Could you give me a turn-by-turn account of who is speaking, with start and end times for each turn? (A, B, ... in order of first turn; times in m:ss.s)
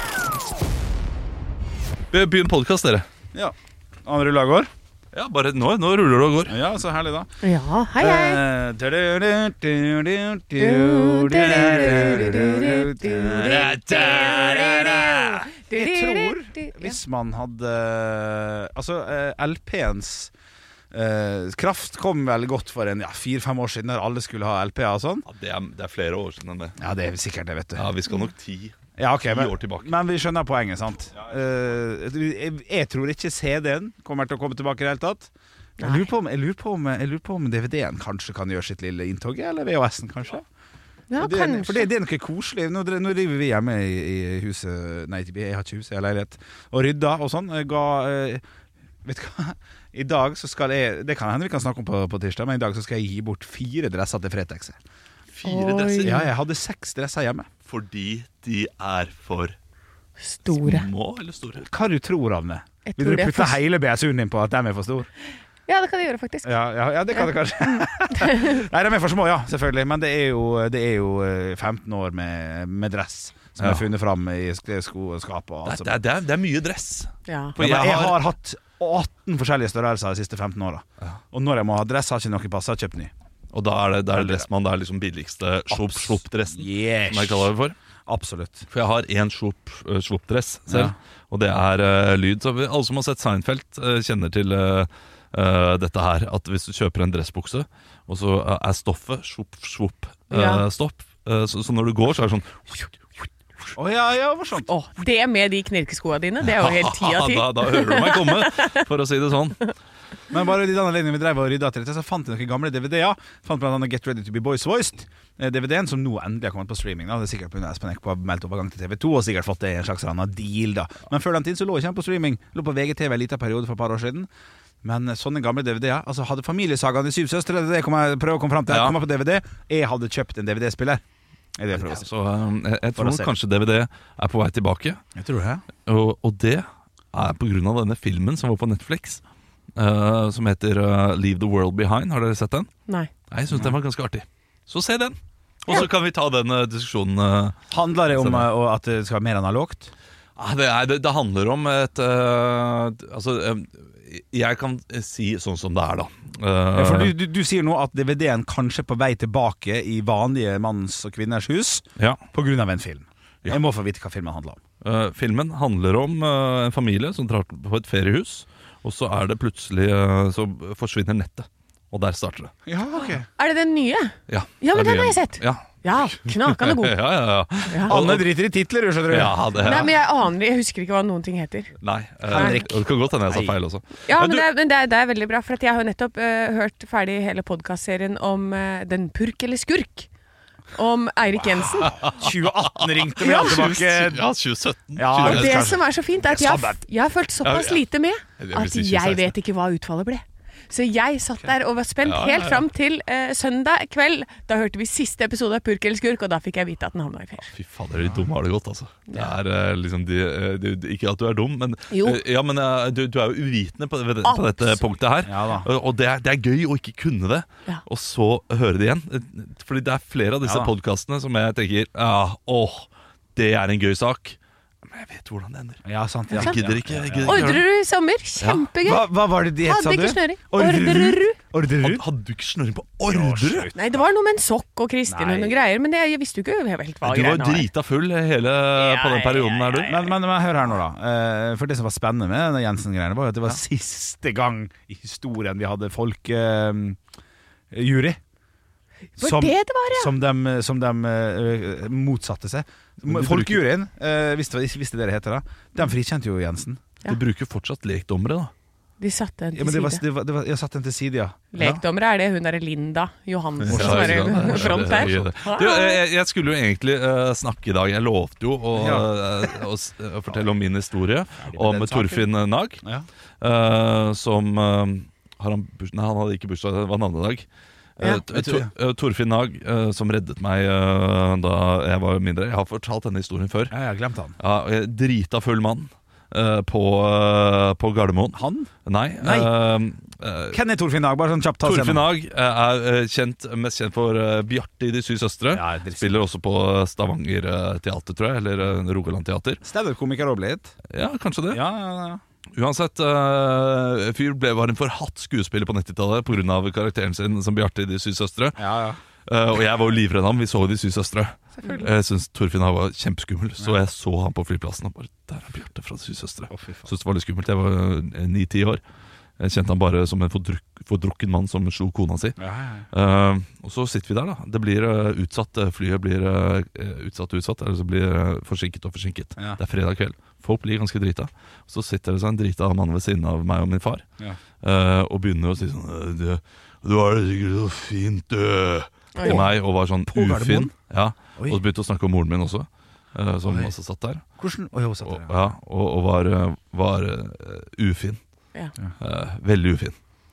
0:02.1-0:03.1 A
0:03.3-0:04.7 B
0:05.1-0:06.6 A
0:06.5-0:07.3 B
0:07.4-0:08.4 C
0:08.0-0:13.9 B
0:10.6-0:16.9 C
0:13.2-0:15.4 A
0:15.7-0:20.3 B
0:20.9-0:25.3 B
0:25.3-0:26.8 A
0:26.8-0:27.9 B
0:27.8-0:29.9 A
0:29.0-0:40.5 B
0:35.8-0:36.1 C
0:41.1-0:41.9 C
0:41.2-0:48.4 B
0:49.0-0:54.8 B
0:55.3-0:56.2 A
0:55.4-0:56.3 C
0:56.0-0:57.5 B
0:57.7-0:59.6 A
1:00.2-1:00.9 C
1:00.5-1:01.7 A
1:01.7-1:05.1 B
1:02.9-1:03.6 C
1:05.7-1:06.5 C
1:06.4-1:16.0 B
1:08.2-1:08.5 C
1:13.6-1:13.8 A
1:15.6-1:18.2 A
1:17.3-1:17.6 C
1:17.6-1:23.1 B
1:23.5-1:27.8 A
1:24.1-1:24.5 B
1:25.7-1:27.5 B
1:28.1-1:28.7 B
1:28.7-1:43.2 A
1:30.7-1:31.0 B
1:40.3-1:40.6 C
1:43.8-1:44.7 B
1:44.7-1:48.8 C
1:46.4-1:49.7 A
1:50.3-2:04.3 B
2:04.8-2:11.0 B
2:08.7-2:09.0 A
2:11.6-2:12.1 B
2:11.7-2:15.0 A
2:12.9-2:13.4 B
2:15.2-2:15.6 B
2:15.9-2:19.2 A
2:19.8-2:22.7 A
2:23.3-2:27.6 A
2:27.7-2:29.9 B
2:28.1-2:28.5 A
2:30.4-2:37.1 A
2:36.8-2:44.6 B
2:44.8-2:52.5 A
2:52.7-2:53.3 B
2:53.4-2:57.0 C
2:54.3-2:58.3 A
2:57.7-2:58.0 C
2:57.9-2:59.9 B
2:59.1-2:59.9 A
2:59.6-3:01.7 C
3:01.8-3:04.5 A
3:02.3-3:02.7 C
3:02.3-3:03.6 B
3:04.1-3:10.1 C
3:10.8-3:12.2 C
3:12.0-3:14.3 B
3:12.0-3:15.8 A
3:13.2-3:13.6 C
3:15.0-3:16.8 B
3:15.2-3:27.5 C
3:17.4-3:17.8 A
3:18.4-3:19.4 A
3:22.0-3:22.7 A
3:27.5-3:45.8 A
3:28.0-3:28.3 B
3:31.9-3:32.2 C
3:34.2-3:34.9 C
3:35.2-3:35.7 B
3:40.4-3:40.7 B
3:45.8-3:47.6 B
3:46.3-3:46.6 C
3:46.4-3:47.6 A
3:47.2-3:49.1 C
3:48.4-3:48.7 A
3:48.8-3:52.0 B
3:49.6-3:51.4 C
3:51.8-3:53.7 A
3:53.1-3:54.1 B
3:53.8-3:57.7 C
3:55.1-3:55.7 B
3:57.0-4:00.0 A
3:58.8-4:00.1 C
3:59.9-4:07.0 B
4:07.7-4:08.2 B
4:09.2-4:10.1 C
4:09.2-4:16.8 B
4:13.0-4:13.6 A
4:17.1-4:18.5 A
4:19.0-4:20.0 C
4:19.5-4:21.7 B
4:21.5-4:26.0 C
4:23.6-4:32.8 A
4:23.7-4:25.3 B
4:28.7-4:29.5 B
4:31.4-4:32.2 B
4:33.4-4:37.4 A
4:38.0-4:43.8 A
4:38.3-4:38.7 B
4:43.7-4:44.4 B
4:44.4-4:50.6 A
4:48.3-4:49.5 B
4:50.5-4:52.1 B
4:51.6-4:59.6 A
4:55.5-4:56.2 B
4:59.6-5:00.7 B
5:00.9-5:01.6 A
5:01.5-5:02.2 B
5:02.6-5:08.6 A
5:08.6-5:09.0 B
5:09.3-5:18.8 A
5:16.5-5:16.9 B
5:19.4-5:22.4 A
5:22.4-5:22.9 B
5:22.9-5:34.0 A
5:34.6-5:44.2 A
5:39.2-5:39.4 C
5:39.2-5:40.7 B
5:43.5-5:43.7 B
5:44.4-5:45.6 B
5:45.0-5:48.2 A
5:49.0-5:50.0 A